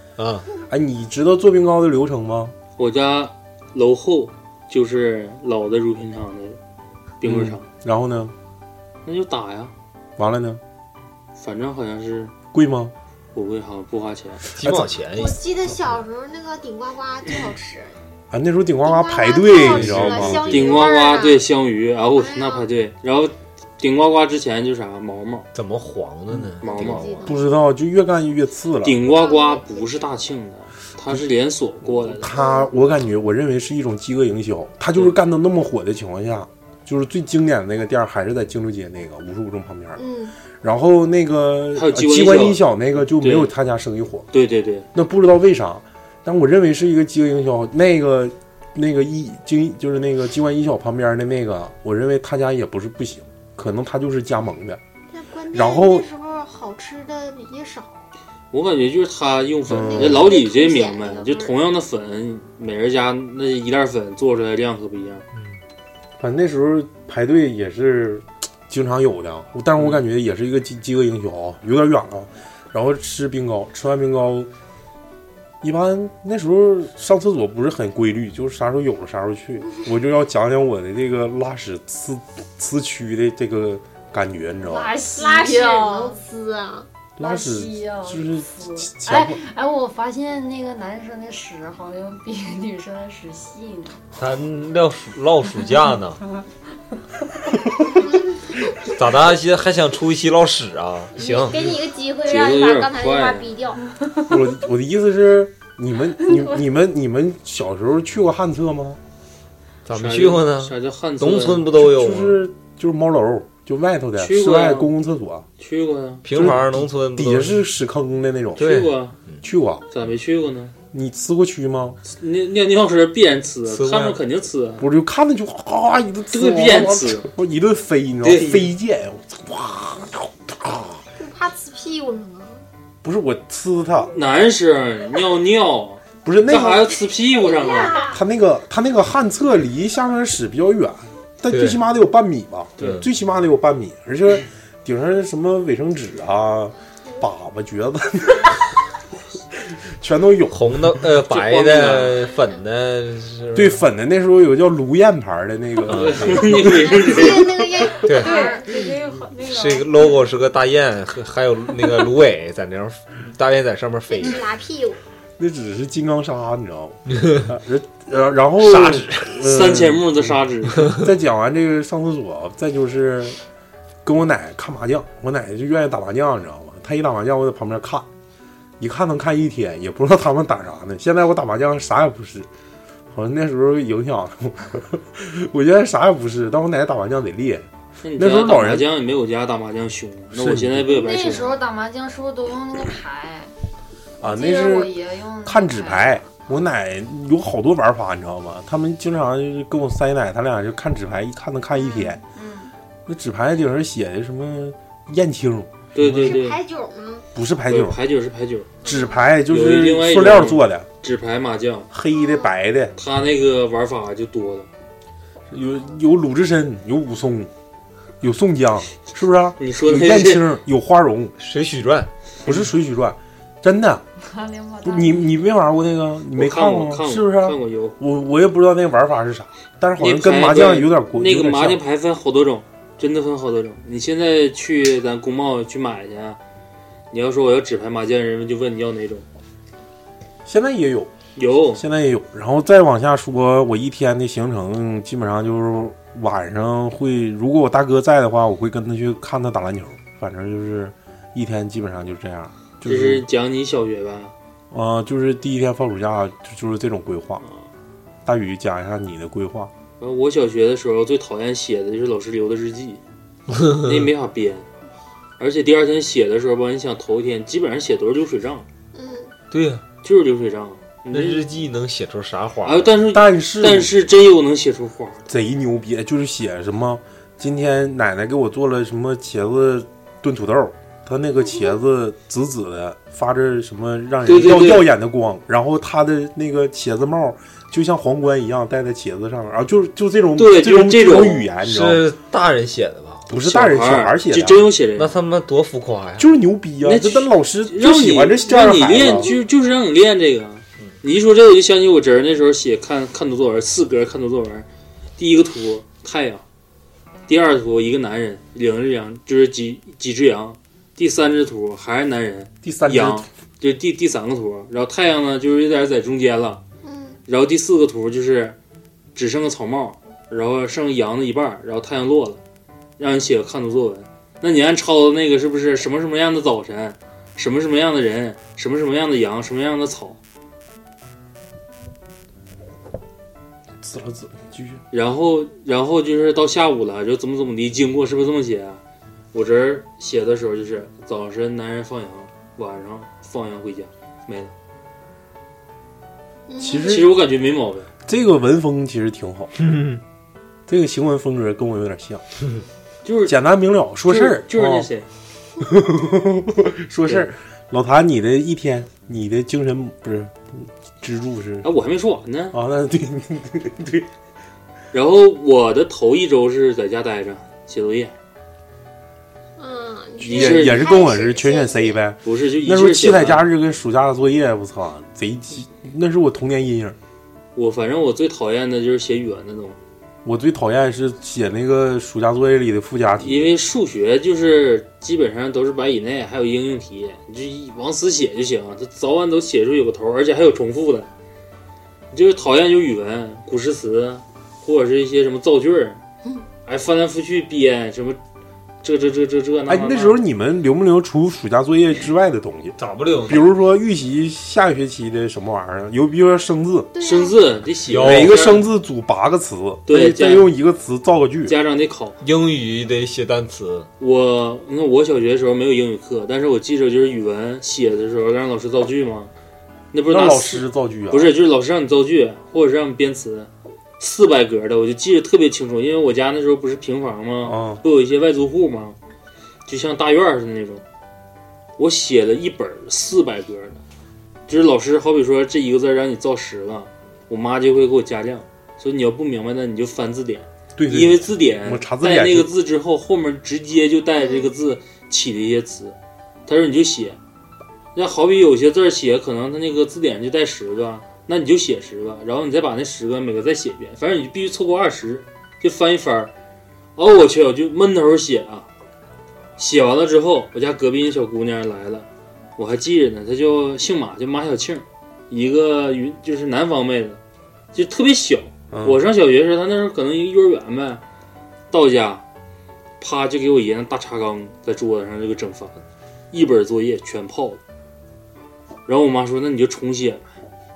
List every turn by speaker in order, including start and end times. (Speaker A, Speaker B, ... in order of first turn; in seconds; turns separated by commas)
Speaker A: 0.2-0.5, Speaker B: 0.7-2.5, Speaker C: 2.8-6.6, Speaker C: 7.2-7.7, Speaker B: 7.2-8.3, Speaker C: 9.1-9.7, Speaker B: 10.2-10.6, Speaker C: 11.4-12.3, Speaker B: 12.5-12.9, Speaker C: 13.3-14.4, Speaker A: 14.5-15.4, Speaker B: 14.6-14.9, Speaker D: 15.1-18.0, Speaker B: 18.3-20.5, Speaker D: 18.8-21.4, Speaker A: 19.6-20.9, Speaker C: 20.5-25.5, Speaker D: 22.2-22.7, Speaker A: 25.5-27.3, Speaker D: 26.6-27.4, Speaker C: 26.6-27.1, Speaker B: 27.2-29.0, Speaker C: 28.8-32.3, Speaker D: 29.0-30.1, Speaker B: 32.2-40.0, Speaker D: 32.3-32.7, Speaker D: 40.0-40.3, Speaker B: 40.6-44.3, Speaker C: 41.8-43.5, Speaker C: 44.3-44.9, Speaker B: 44.9-54.8, Speaker D: 55.1-58.1, Speaker B: 55.5-56.1, Speaker C: 58.5-65.2, Speaker B: 59.7-60.3, Speaker D: 59.7-61.5, Speaker B: 66.2-74.5, Speaker B: 75.6-84.9, Speaker E: 84.7-86.2, Speaker D: 85.1-86.9, Speaker B: 87.2-89.4, Speaker E: 87.2-94.0, Speaker A: 94.2-96.2, Speaker A: 98.9-101.7, Speaker D: 101.2-103.8, Speaker C: 102.2-103.5, Speaker B: 104.3-109.0, Speaker A: 109.9-112.4, Speaker C: 109.9-111.7, Speaker B: 111.8-115.5, Speaker C: 114.2-114.9, Speaker C: 115.6-116.2, Speaker A: 116.2-117.7, Speaker B: 116.3-118.7, Speaker C: 118.6-119.2, Speaker A: 118.6-119.4, Speaker B: 119.4-119.8, Speaker C: 119.9-120.8, Speaker B: 120.9-122.0, Speaker C: 122.1-124.9, Speaker A: 123.7-124.2, Speaker B: 124.8-131.0, Speaker C: 126.3-127.3, Speaker C: 128.2-128.7, Speaker D: 131.2-132.6, Speaker B: 133.0-134.1, Speaker C: 134.1-138.1, Speaker B: 136.2-136.9, Speaker D: 137.4-138.2, Speaker B: 138.1-148.7, Speaker A: 141.5-141.8, Speaker B: 150.0-150.6, Speaker A: 150.5-153.8, Speaker C: 151.3-152.2, Speaker B: 153.5-157.5, Speaker A: 155.9-156.7, Speaker C: 156.0-157.6, Speaker D: 156.6-158.7, Speaker A: 158.0-158.3, Speaker E: 158.2-160.1, Speaker A: 159.4-164.4, Speaker D: 164.1-165.0, Speaker B: 165.4-170.3, Speaker C: 168.7-171.0, Speaker B: 170.9-173.4, Speaker B: 174.0-178.1, Speaker B: 178.8-182.5, Speaker B: 183.1-188.9, Speaker C: 188.0-191.6, Speaker B: 190.3-190.9, Speaker E: 190.9-193.5, Speaker B: 194.2-202.2, Speaker E: 194.2-196.4, Speaker E: 202.3-202.7, Speaker B: 203.1-205.7, Speaker C: 205.9-206.6, Speaker D: 206.0-207.3, Speaker B: 207.3-208.0, Speaker C: 207.7-208.8, Speaker B: 208.8-210.9, Speaker C: 209.5-211.9, Speaker B: 211.9-212.9, Speaker D: 212.1-212.5, Speaker C: 213.0-214.7, Speaker B: 215.5-217.5, Speaker B: 218.2-221.3, Speaker C: 219.6-220.4, Speaker A: 221.4-222.1, Speaker B: 222.5-224.0, Speaker E: 224.2-225.3, Speaker B: 224.8-231.8, Speaker C: 226.3-228.0, Speaker C: 230.0-236.4, Speaker C: 237.1-239.2, Speaker B: 240.5-241.1, Speaker C: 241.4-241.8, Speaker B: 241.8-253.2, Speaker C: 252.8-254.3, Speaker B: 254.7-257.4, Speaker B: 258.2-259.7, Speaker C: 260.0-263.0, Speaker A: 263.6-263.9, Speaker C: 263.8-264.6, Speaker C: 265.4-268.6, Speaker D: 268.9-269.3, Speaker A: 269.5-269.8, Speaker C: 270.0-271.5, Speaker A: 271.1-272.9, Speaker C: 272.6-275.2, Speaker B: 273.1-273.9, Speaker B: 275.3-292.1, Speaker C: 284.3-284.9, Speaker C: 290.4-291.5, Speaker A: 291.6-293.3, Speaker B: 293.3-294.7, Speaker C: 293.4-295.2, Speaker A: 295.0-296.3, Speaker B: 296.2-299.3, Speaker C: 296.8-304.7, Speaker C: 305.2-306.4, Speaker C: 307.3-316.6, Speaker B: 312.6-313.3, Speaker D: 316.8-317.2, Speaker C: 317.3-318.6, Speaker C: 319.1-322.4, Speaker C: 323.0-330.2, Speaker B: 333.8-334.8, Speaker C: 334.9-338.8, Speaker C: 339.3-344.5, Speaker D: 346.5-347.1, Speaker B: 346.6-347.2, Speaker C: 346.8-347.9, Speaker B: 348.1-349.5, Speaker A: 349.6-350.0, Speaker B: 350.7-352.2, Speaker C: 353.1-353.4, Speaker B: 353.3-354.9, Speaker C: 354.0-355.1, Speaker B: 355.6-361.7, Speaker C: 361.6-362.6, Speaker B: 362.5-364.1, Speaker C: 364.9-368.1, Speaker D: 369.6-372.0, Speaker C: 370.2-370.9, Speaker B: 370.2-377.0, Speaker C: 372.2-373.5, Speaker C: 377.6-379.8, Speaker B: 380.2-383.5, Speaker C: 383.2-391.1, Speaker C: 392.1-396.0, Speaker C: 396.7-398.2, Speaker C: 398.8-400.2, Speaker B: 399.7-406.9, Speaker A: 402.8-403.5, Speaker D: 406.9-407.4, Speaker C: 407.0-408.7, Speaker A: 407.9-408.5, Speaker B: 408.0-411.6, Speaker C: 409.9-410.5, Speaker C: 411.5-412.2, Speaker A: 412.2-413.9, Speaker C: 414.0-419.3, Speaker C: 419.9-423.5, Speaker B: 420.1-421.3, Speaker C: 424.0-429.0, Speaker B: 427.4-427.8, Speaker C: 429.7-430.8, Speaker C: 431.8-433.8, Speaker C: 434.5-446.0, Speaker B: 440.8-442.5, Speaker D: 444.2-444.5, Speaker C: 446.5-447.2, Speaker C: 447.9-456.3, Speaker C: 457.0-458.7, Speaker C: 459.6-467.2, Speaker C: 467.7-471.0, Speaker B: 468.7-469.0, Speaker C: 471.7-472.2, Speaker C: 473.0-475.8, Speaker C: 476.3-477.6, Speaker C: 478.9-480.3